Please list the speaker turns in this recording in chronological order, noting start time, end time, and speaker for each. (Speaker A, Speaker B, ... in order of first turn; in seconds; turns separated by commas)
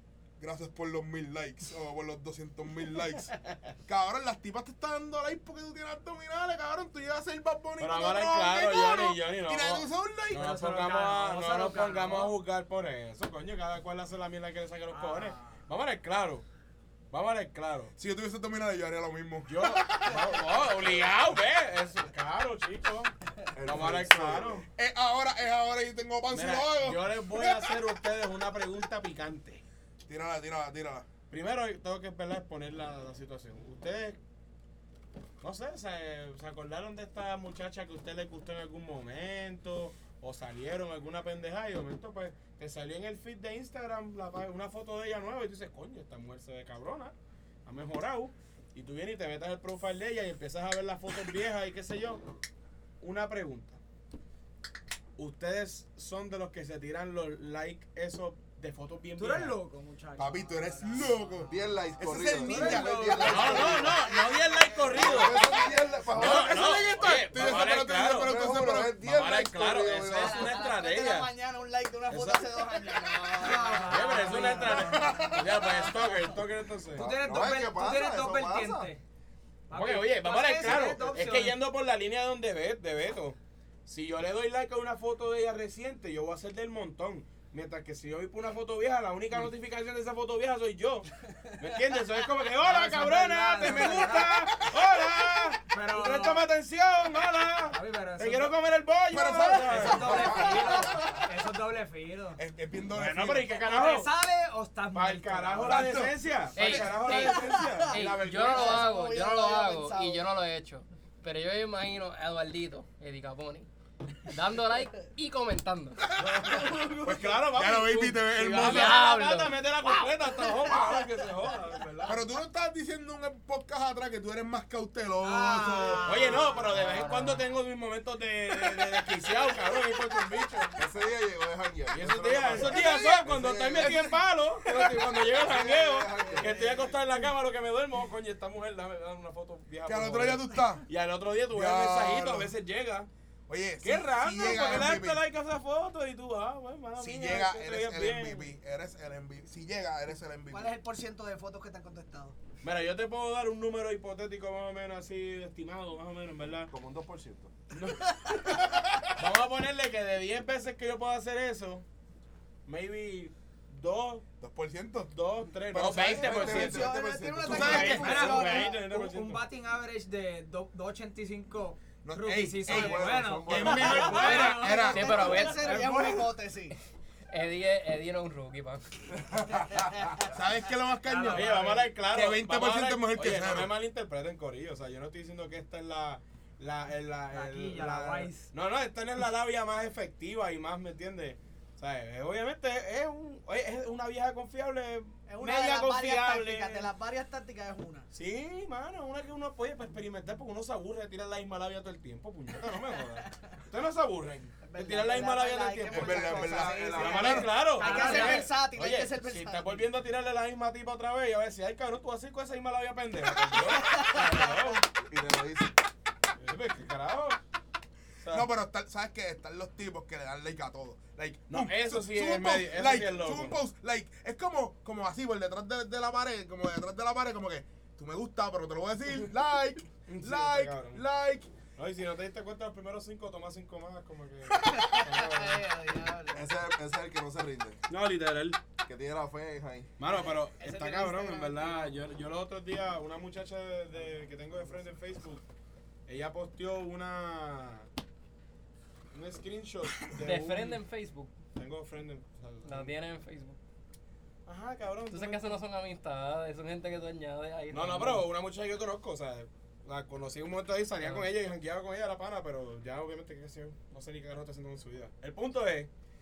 Speaker A: 0.4-3.3, Speaker A: 3.9-10.5, Speaker B: 7.8-16.4, Speaker C: 10.3-12.3, Speaker C: 14.9-15.6, Speaker B: 17.1-17.9, Speaker A: 18.0-20.7, Speaker B: 19.5-24.7, Speaker D: 23.6-24.6, Speaker A: 24.7-27.8, Speaker B: 26.3-29.6, Speaker A: 30.1-31.1, Speaker B: 31.3-34.2, Speaker B: 35.4-47.1, Speaker B: 47.7-52.2, Speaker B: 53.0-53.8, Speaker B: 55.2-59.6, Speaker C: 59.2-64.0, Speaker A: 60.2-63.8, Speaker D: 61.5-64.0, Speaker B: 63.2-68.3, Speaker E: 63.9-66.1, Speaker D: 64.9-66.8, Speaker A: 66.1-69.0, Speaker D: 68.2-70.6, Speaker B: 68.9-71.3, Speaker E: 70.0-76.3, Speaker B: 72.1-72.7, Speaker C: 73.4-75.1, Speaker B: 73.4-77.0, Speaker A: 74.6-75.4, Speaker D: 76.9-78.9, Speaker C: 77.0-79.0, Speaker C: 79.7-81.6, Speaker B: 79.7-100.5, Speaker E: 80.7-81.0, Speaker C: 92.6-94.4, Speaker C: 95.7-96.5, Speaker C: 97.7-98.5, Speaker A: 99.1-101.2, Speaker C: 99.7-102.4, Speaker E: 100.2-100.8, Speaker A: 102.4-103.5, Speaker B: 102.9-104.1, Speaker C: 103.5-107.0, Speaker B: 104.9-109.1, Speaker E: 105.8-106.0, Speaker F: 106.5-113.7, Speaker E: 106.6-110.3, Speaker F: 114.2-116.1, Speaker B: 116.2-122.2, Speaker E: 116.4-117.4, Speaker A: 117.1-119.0, Speaker F: 118.5-119.6, Speaker E: 120.5-120.9, Speaker A: 122.1-126.6, Speaker E: 125.2-127.4, Speaker B: 126.0-130.8, Speaker D: 130.8-136.8, Speaker B: 131.9-143.1, Speaker A: 132.6-134.1, Speaker A: 139.9-140.9, Speaker A: 141.5-142.5, Speaker A: 143.5-145.2, Speaker B: 143.8-148.5, Speaker A: 147.0-150.8, Speaker E: 150.5-152.4, Speaker B: 152.6-156.7, Speaker D: 156.7-157.5, Speaker B: 157.7-161.8, Speaker B: 162.7-164.2, Speaker A: 164.4-165.1, Speaker B: 165.1-169.4, Speaker A: 165.7-166.9, Speaker D: 165.8-168.0, Speaker E: 166.4-168.8, Speaker A: 167.4-168.4, Speaker C: 167.8-174.6, Speaker A: 172.0-175.5, Speaker D: 172.6-174.1, Speaker B: 173.6-174.7, Speaker E: 173.8-176.8, Speaker F: 174.2-176.3, Speaker F: 177.3-178.8, Speaker D: 179.3-179.7, Speaker A: 180.3-183.7, Speaker C: 181.0-181.9, Speaker B: 181.3-196.9, Speaker C: 187.3-188.5, Speaker E: 195.3-198.1, Speaker B: 198.1-214.9, Speaker E: 204.6-209.9, Speaker A: 205.9-207.7, Speaker C: 207.8-208.5, Speaker E: 213.6-214.8, Speaker D: 215.0-215.7, Speaker B: 216.4-217.4, Speaker B: 218.2-218.5, Speaker A: 218.3-231.5, Speaker B: 221.5-223.6, Speaker B: 230.1-231.0, Speaker B: 231.8-235.7, Speaker E: 234.6-236.5, Speaker D: 236.3-237.8, Speaker B: 237.9-238.6, Speaker D: 238.9-239.9, Speaker B: 240.0-245.4, Speaker E: 240.1-242.0, Speaker B: 246.1-247.9, Speaker B: 249.1-250.8, Speaker F: 250.1-251.3, Speaker B: 251.6-253.0, Speaker F: 252.7-253.6, Speaker B: 254.5-255.6, Speaker F: 255.1-258.3, Speaker B: 257.7-265.9